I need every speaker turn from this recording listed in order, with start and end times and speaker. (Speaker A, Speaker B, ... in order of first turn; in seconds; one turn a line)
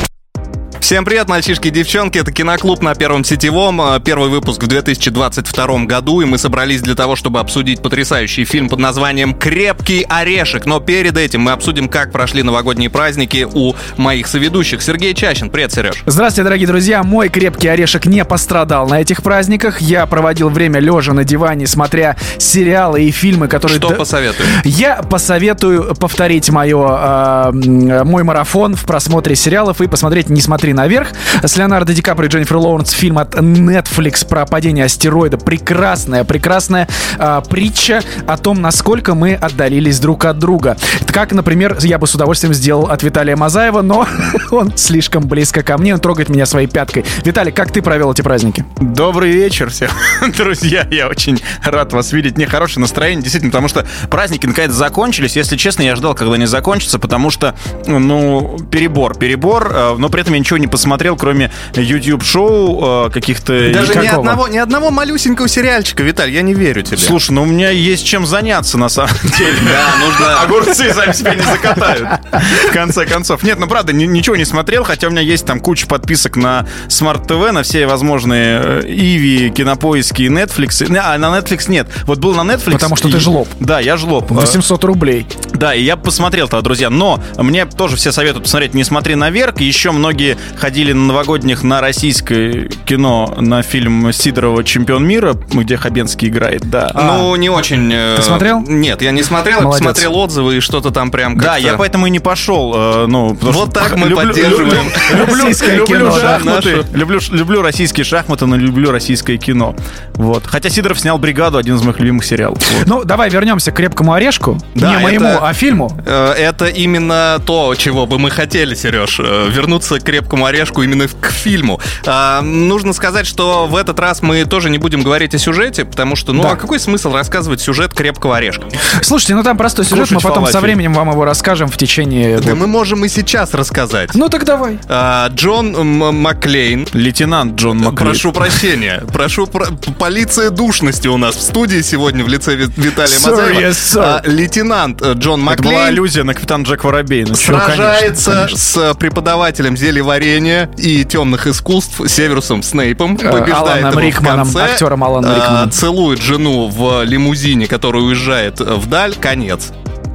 Speaker A: 0.8-16.0
Speaker B: 16.1-48.7
Speaker A: 23.6-24.6
Speaker C: 48.8-64.3
Speaker A: 63.7-67.2
Speaker B: 63.7-64.4
Speaker C: 66.9-84.6
Speaker A: 69.4-70.6
Speaker B: 82.7-83.5
Speaker B: 84.3-85.3
Speaker C: 85.5-97.0
Speaker A: 96.9-101.8
Speaker B: 97.0-97.3
Speaker B: 98.2-98.7
Speaker B: 99.6-100.1
Speaker C: 101.3-112.9
Speaker A: 103.5-106.9
Speaker B: 105.0-106.5
Speaker B: 112.7-116.0
Speaker A: 114.8-115.5
Speaker A: 116.0-128.8
Speaker B: 126.3-126.6
Speaker B: 128.9-132.6
Speaker C: 129.9-130.8
Speaker A: 132.4-134.2
Speaker B: 134.1-134.8
Speaker A: 134.9-136.9
Speaker C: 136.9-138.6
Speaker A: 137.8-146.0
Speaker B: 143.1-144.2
Speaker C: 145.5-147.9
Speaker A: 147.3-159.7
Speaker B: 147.4-148.5
Speaker B: 153.2-155.8